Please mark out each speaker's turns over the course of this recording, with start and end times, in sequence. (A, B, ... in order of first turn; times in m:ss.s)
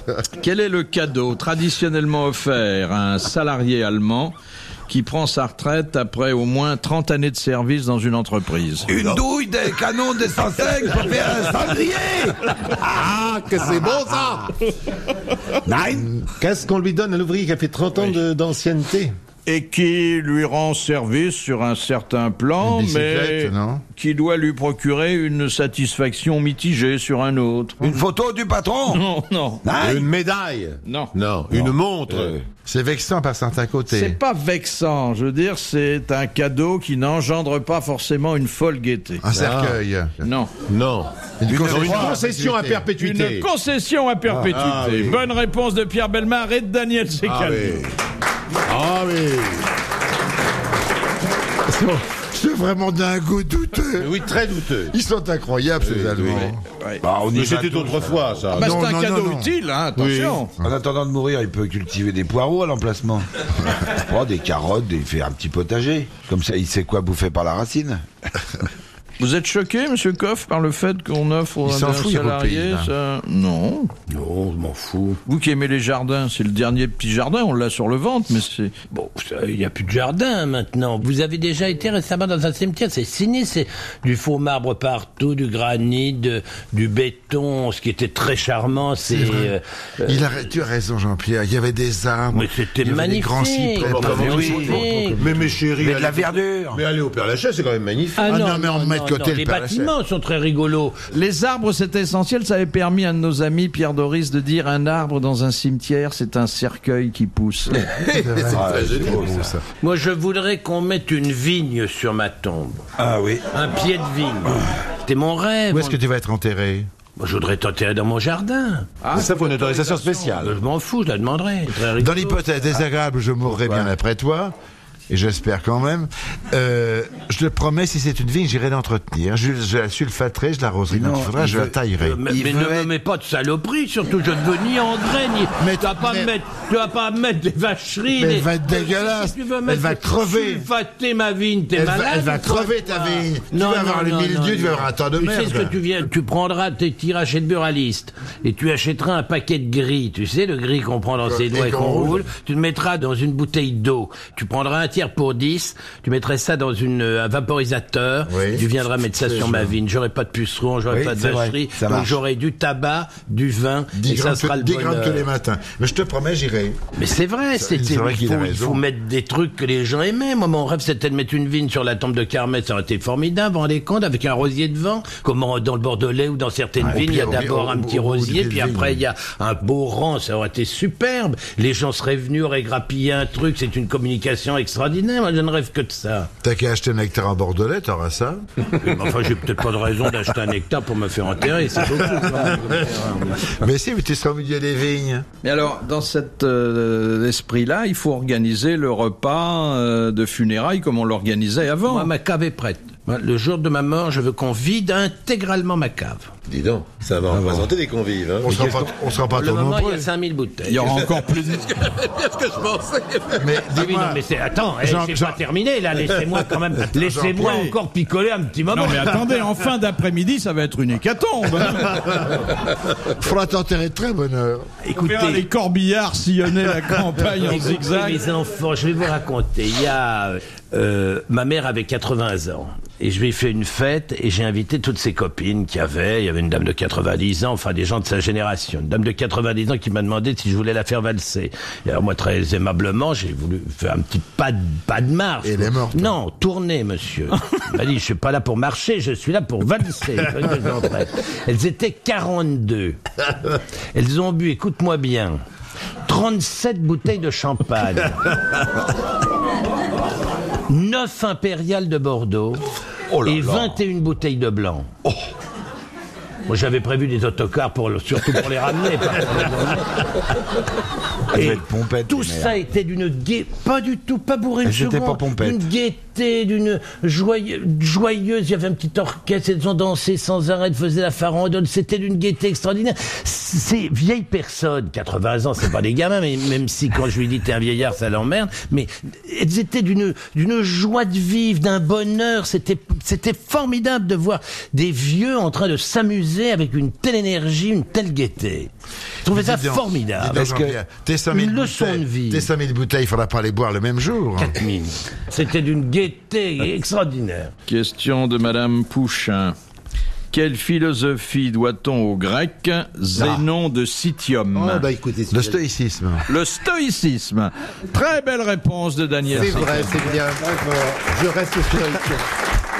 0:00.4-0:04.3 A
0:04.9-0:08.9 A
0:08.9-0:12.8 B
0:12.8-0:14.5 C
0:15.6-0:16.1 B
0:16.4-0:19.1 C
0:19.4-0:27.8 A
0:22.6-0:23.8 D
0:27.8-0:29.0 B
0:28.9-0:29.6 A
0:29.6-0:30.1 B
0:29.7-0:32.4 C
0:30.8-0:31.1 A
0:31.5-0:32.4 B
0:32.6-0:34.2 D
0:33.9-0:39.2 A
0:39.2-0:40.2 D
0:39.3-0:39.8 C
0:40.2-0:40.5 A
0:40.7-0:43.5 C
0:41.4-0:42.9 D
0:41.5-0:42.2 B
0:43.0-0:47.8 A
0:44.4-0:45.2 C
0:47.2-0:47.9 C
0:48.6-0:49.6 C
0:51.7-0:54.2 D
0:54.0-0:54.9 C
0:54.9-0:56.6 D
0:55.8-0:56.5 C
0:57.0-0:58.4 B
0:57.3-0:58.8 C
0:58.5-0:59.5 D
0:58.5-1:00.5 A
1:00.0-1:00.4 C
1:00.6-1:03.3 B
1:03.8-1:08.0 B
1:09.2-1:13.9 A
1:11.6-1:12.9 D
1:14.1-1:15.2 E
1:15.2-1:18.7 A
1:18.9-1:30.4 E
1:29.0-1:29.5 D
1:30.0-1:34.9 D
1:32.3-1:35.4 E
1:33.8-1:38.3 C
1:34.0-1:35.2 B
1:35.7-1:36.8 B
1:38.2-1:41.0 E
1:38.2-1:39.9 D
1:41.1-1:47.9 A
1:47.7-1:49.4 C
1:48.1-1:49.6 D
1:48.5-1:49.5 B
1:49.8-1:52.8 E
1:53.0-1:53.5 B
1:53.5-1:56.0 E
1:55.7-1:56.9 D
1:57.2-1:58.9 E
1:59.0-2:00.4 A
1:59.1-2:00.6 C
2:00.4-2:02.4 E
2:02.0-2:04.5 D
2:05.1-2:12.2 D
2:10.9-2:12.9 B
2:12.0-2:45.3 E
2:15.6-2:16.3 D
2:18.1-2:20.7 D
2:21.7-2:25.7 D
2:31.2-2:32.3 D
2:38.3-2:39.7 D
2:40.9-2:42.2 B
2:43.9-2:46.8 D
2:46.9-3:06.3 E
2:47.6-2:48.8 D
2:56.8-2:59.0 D
3:06.4-3:08.4 D
3:08.8-3:13.5 E
3:13.5-3:15.2 D
3:15.4-3:22.1 A
3:21.9-3:26.3 E
3:26.5-3:28.6 C
3:27.3-3:27.7 B
3:28.4-3:30.1 D
3:28.5-3:28.8 B
3:29.3-3:31.0 E
3:30.6-3:31.8 A
3:30.9-3:33.5 C
3:33.4-3:34.2 D
3:33.7-3:39.2 E
3:34.8-3:35.4 D
3:36.9-3:37.7 D
3:37.4-3:37.7 A
3:38.7-3:42.3 A
3:43.1-3:44.7 D
3:44.8-3:45.4 E
3:45.0-3:48.2 A
3:47.4-4:13.0 E
4:05.4-4:06.2 D
4:13.9-4:15.4 E
4:16.0-4:18.3 E
4:20.7-4:22.6 E
4:23.1-4:23.8 B
4:23.2-4:24.9 E
4:26.5-4:30.0 E
4:31.3-4:58.7 E
4:31.3-4:32.6 B
4:34.6-4:35.6 B
4:59.2-5:00.4 E
4:59.3-5:04.5 D
5:00.3-5:00.8 B
5:01.3-5:02.5 E
5:04.4-5:07.5 E
5:07.7-5:09.6 A
5:10.3-5:14.8 A
5:13.2-5:13.4 C
5:14.5-5:15.6 C
5:15.3-5:16.2 D
5:16.3-5:20.0 A
5:19.3-5:22.2 C